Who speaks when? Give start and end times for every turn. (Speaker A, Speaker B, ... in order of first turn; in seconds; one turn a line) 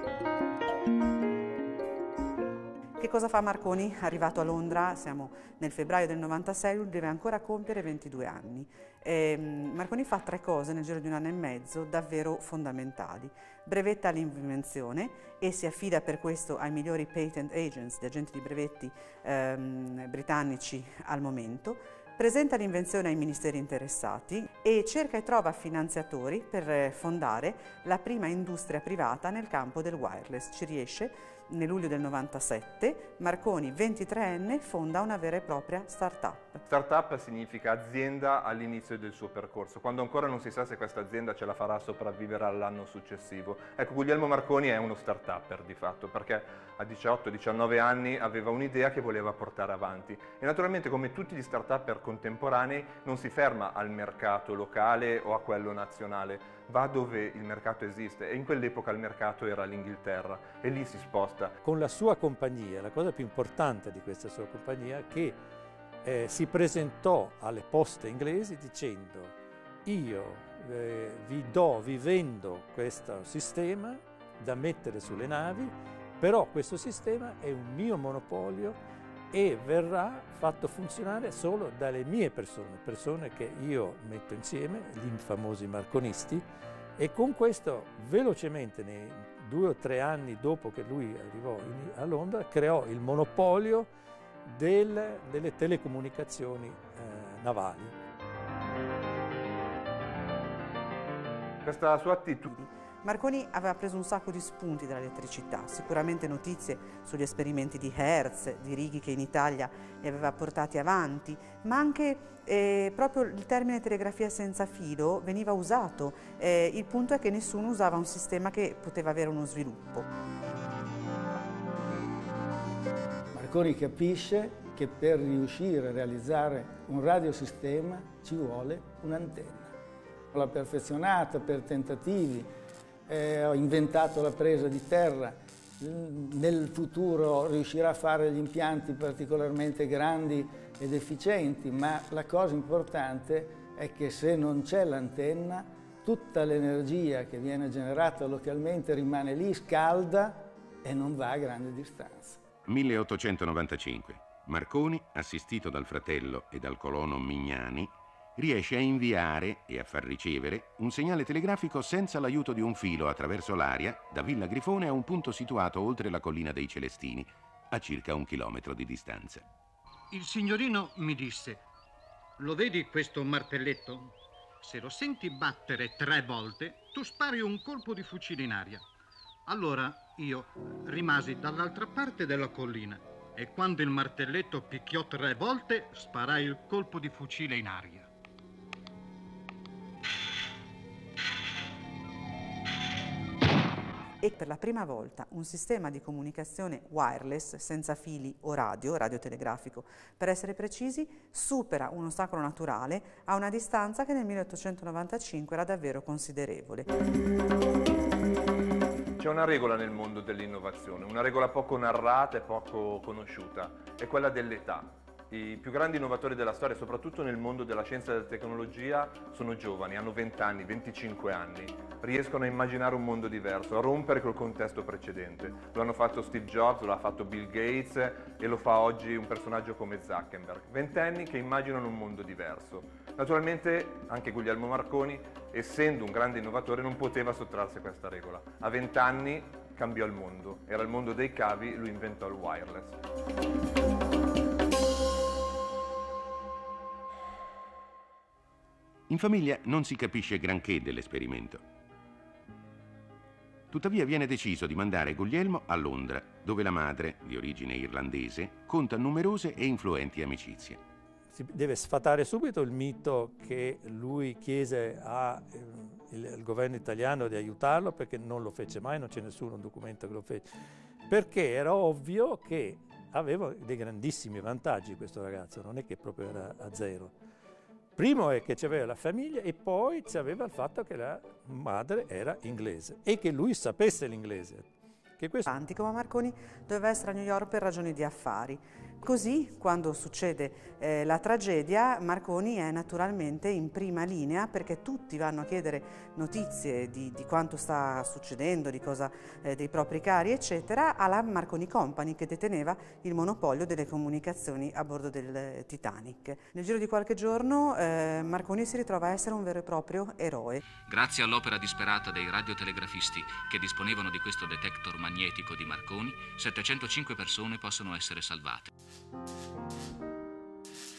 Speaker A: 3.0-36.6
Speaker B: 36.6-61.5
Speaker C: 61.6-65.4
Speaker C: 66.0-69.3
Speaker C: 69.8-78.8
Speaker C: 79.3-86.4
Speaker C: 87.0-93.9
Speaker C: 94.5-98.0
Speaker B: 101.6-102.5
Speaker A: 102.5-120.1
Speaker D: 123.3-129.7
Speaker D: 130.3-132.5
Speaker D: 133.1-152.4
Speaker E: 152.7-169.4
Speaker F: 170.1-171.6
Speaker F: 172.4-178.8
Speaker F: 179.4-188.1
Speaker A: 194.2-206.9
Speaker B: 209.2-243.0
Speaker E: 249.1-251.6
Speaker E: 253.7-260.8
Speaker C: 261.3-270.4
Speaker C: 271.1-277.1
Speaker C: 277.9-284.7
Speaker C: 285.2-285.5
Speaker A: 285.4-310.6
Speaker G: 310.7-318.7